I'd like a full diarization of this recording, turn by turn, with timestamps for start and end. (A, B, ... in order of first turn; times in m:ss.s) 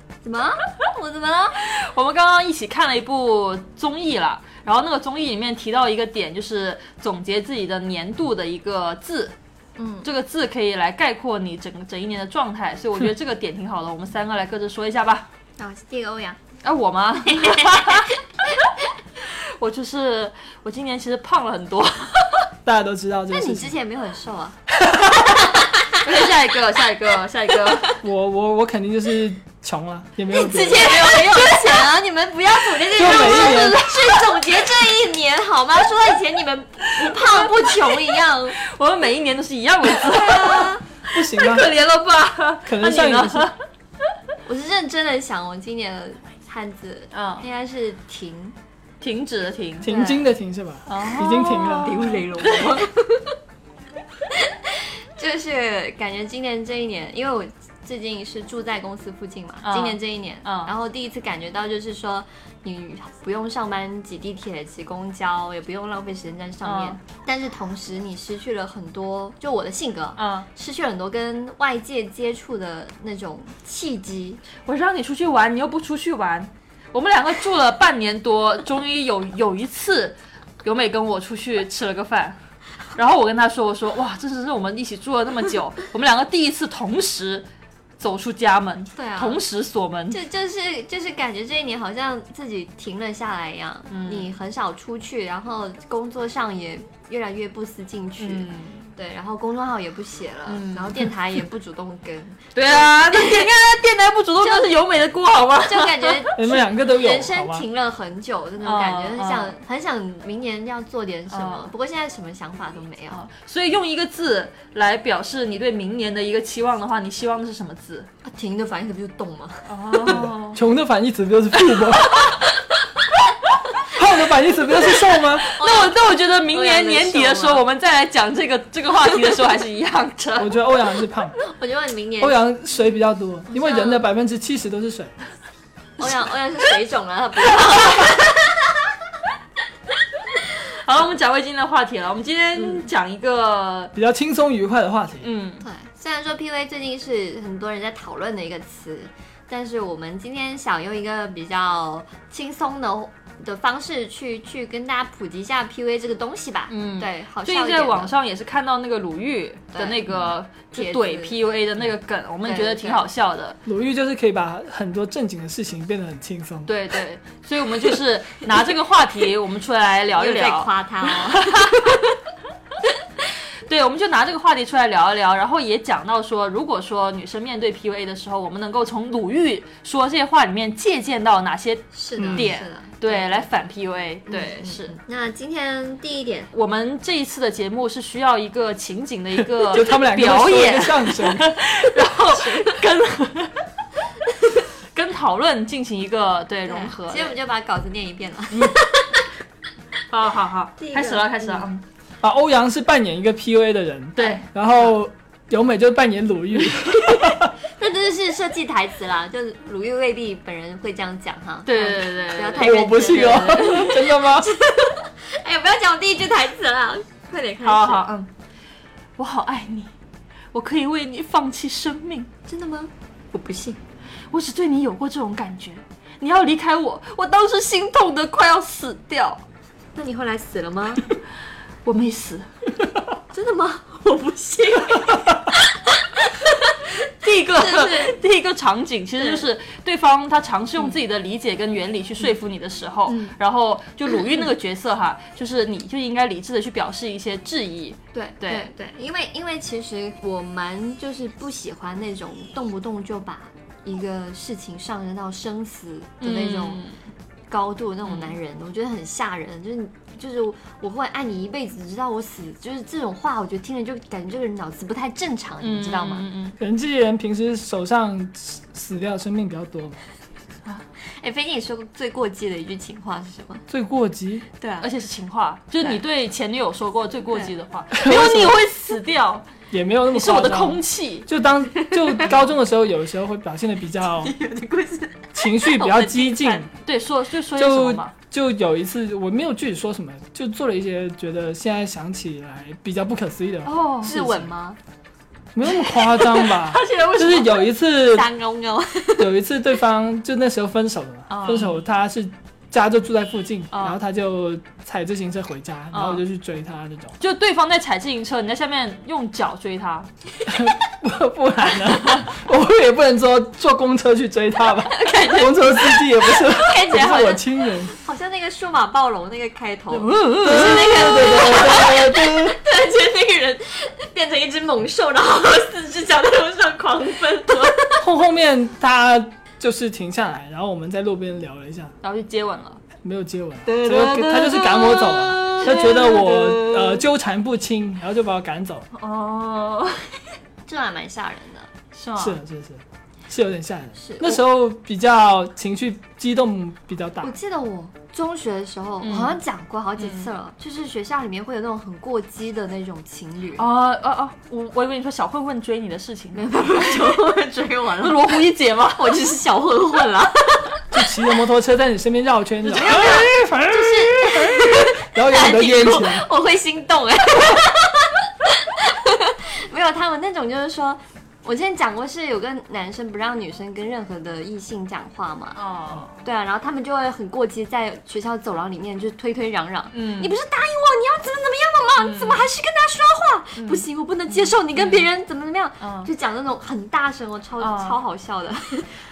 0:00.2-0:01.6 A
0:01.6-0:09.4 B
0:09.8-0:10.1 A
0:10.0-0:15.3 B
0:15.6-0:16.4 A
0:16.6-0:18.1 B
0:17.3-0:18.2 A
0:19.2-0:22.4 B
0:22.6-0:23.8 C
0:23.3-0:24.6 A
0:25.6-0:26.0 A
0:25.9-0:28.0 B
0:28.0-0:31.0 C
0:30.3-0:38.6 A
0:30.9-0:31.8 B
0:32.9-0:34.5 B
0:33.0-0:33.8 C
0:37.0-0:38.0 B
0:38.6-0:43.6 B
0:39.9-0:40.8 A
0:41.1-0:41.7 C
0:42.6-0:43.5 C
0:44.5-0:48.6 A
0:47.1-0:47.4 B
0:49.0-0:49.9 B
0:49.8-0:52.2 C
0:49.9-0:50.3 A
0:50.9-0:52.9 B
0:51.8-0:53.3 A
0:54.4-1:14.4 A
0:59.6-1:00.7 B
1:06.6-1:07.0 B
1:10.2-1:10.5 B
1:14.7-1:22.4 B
1:23.0-1:27.5 B
1:28.0-1:30.2 B
1:29.0-1:29.4 A
1:30.1-1:43.5 A
1:33.9-1:34.3 B
1:38.2-1:38.9 B
1:40.5-1:41.1 B
1:42.6-1:46.3 B
1:44.4-1:44.7 A
1:45.6-1:53.2 A
1:46.4-1:47.6 C
1:48.6-1:49.6 B
1:51.3-1:51.7 B
1:53.1-1:58.1 B
1:58.2-2:00.2 A
1:59.7-2:00.6 B
2:00.1-2:02.2 C
2:01.8-2:02.4 B
2:03.9-2:05.5 C
2:05.3-2:10.5 B
2:05.6-2:07.6 A
2:10.4-2:11.4 C
2:11.4-2:12.4 A
2:12.2-2:15.1 C
2:13.5-2:14.0 A
2:16.0-2:18.7 A
2:20.6-2:23.9 B
2:24.0-2:25.3 C
2:25.2-2:25.6 B
2:25.6-2:38.1 A
2:36.7-2:43.6 B
2:39.7-2:41.4 A
2:42.4-2:43.0 A
2:43.7-2:46.7 C
2:46.7-2:52.0 B
2:50.1-2:52.0 A
2:53.6-3:04.9 B
3:01.9-3:03.5 A
3:02.2-3:02.5 C
3:04.3-3:06.5 A
3:06.5-3:13.6 B
3:09.6-3:11.5 C
3:12.1-3:12.8 A
3:14.9-3:17.3 B
3:16.7-3:19.3 A
3:20.1-3:21.8 B
3:20.8-3:21.7 A
3:22.2-3:27.5 C
3:24.2-3:24.9 B
3:27.6-3:38.1 A
3:31.7-3:32.8 B
3:32.6-3:34.5 C
3:37.6-3:38.3 B
3:39.2-3:39.9 B
3:40.5-3:42.3 B
3:42.5-3:43.8 A
3:44.3-3:49.4 B
3:50.0-3:51.1 A
3:51.8-3:52.5 B
3:53.3-3:55.6 A
3:56.3-3:56.9 A
3:57.2-4:08.7 B
3:57.5-3:58.2 A
3:59.2-3:59.4 A
4:03.1-4:03.4 A
4:04.1-4:04.4 A
4:08.1-4:16.8 A
4:16.2-4:17.0 B
4:17.5-4:26.3 A
4:18.0-4:18.4 B
4:25.6-4:26.6 B
4:26.6-4:30.0 C
4:31.1-4:33.6 A
4:33.7-4:34.4 C
4:34.6-4:34.9 A
4:34.8-4:39.5 B
4:37.9-4:38.6 C
4:39.7-4:44.4 C
4:40.1-4:41.3 B
4:41.8-4:42.3 A
4:42.2-4:42.5 B
4:44.2-4:46.7 A
4:45.3-4:46.7 C
4:46.8-4:48.1 B
4:47.6-4:54.5 C
4:53.6-4:54.1 B
4:54.0-4:54.8 A
4:55.5-4:58.3 C
4:56.2-4:57.7 B
4:58.0-4:59.3 A
4:59.2-5:07.2 C
5:01.3-5:01.8 B
5:03.7-5:04.0 B
5:05.9-5:06.2 B
5:07.2-5:10.1 B
5:10.5-5:17.9 C
5:14.8-5:28.0 A
5:20.0-5:21.1 B
5:20.0-5:22.6 C
5:28.0-5:31.9 C
5:32.0-5:32.8 B
5:33.0-5:38.9 C
5:33.7-5:37.0 B
5:39.0-5:40.2 B
5:40.7-5:41.7 A
5:41.9-5:42.4 B
5:42.2-5:47.3 C
5:44.0-5:44.4 A
5:47.2-5:53.7 A
5:49.0-5:49.4 B
5:50.0-5:50.3 B
5:53.6-5:57.2 B
5:56.3-5:58.4 A
5:58.0-5:59.2 B
5:59.0-6:00.8 A
6:00.9-6:06.3 C
6:02.7-6:15.6 A
6:02.8-6:03.2 B
6:15.6-6:16.2 B
6:16.2-6:28.9 A
6:19.9-6:20.4 B
6:22.0-6:22.5 B
6:23.6-6:25.1 B
6:25.8-6:26.1 B
6:27.6-6:28.0 B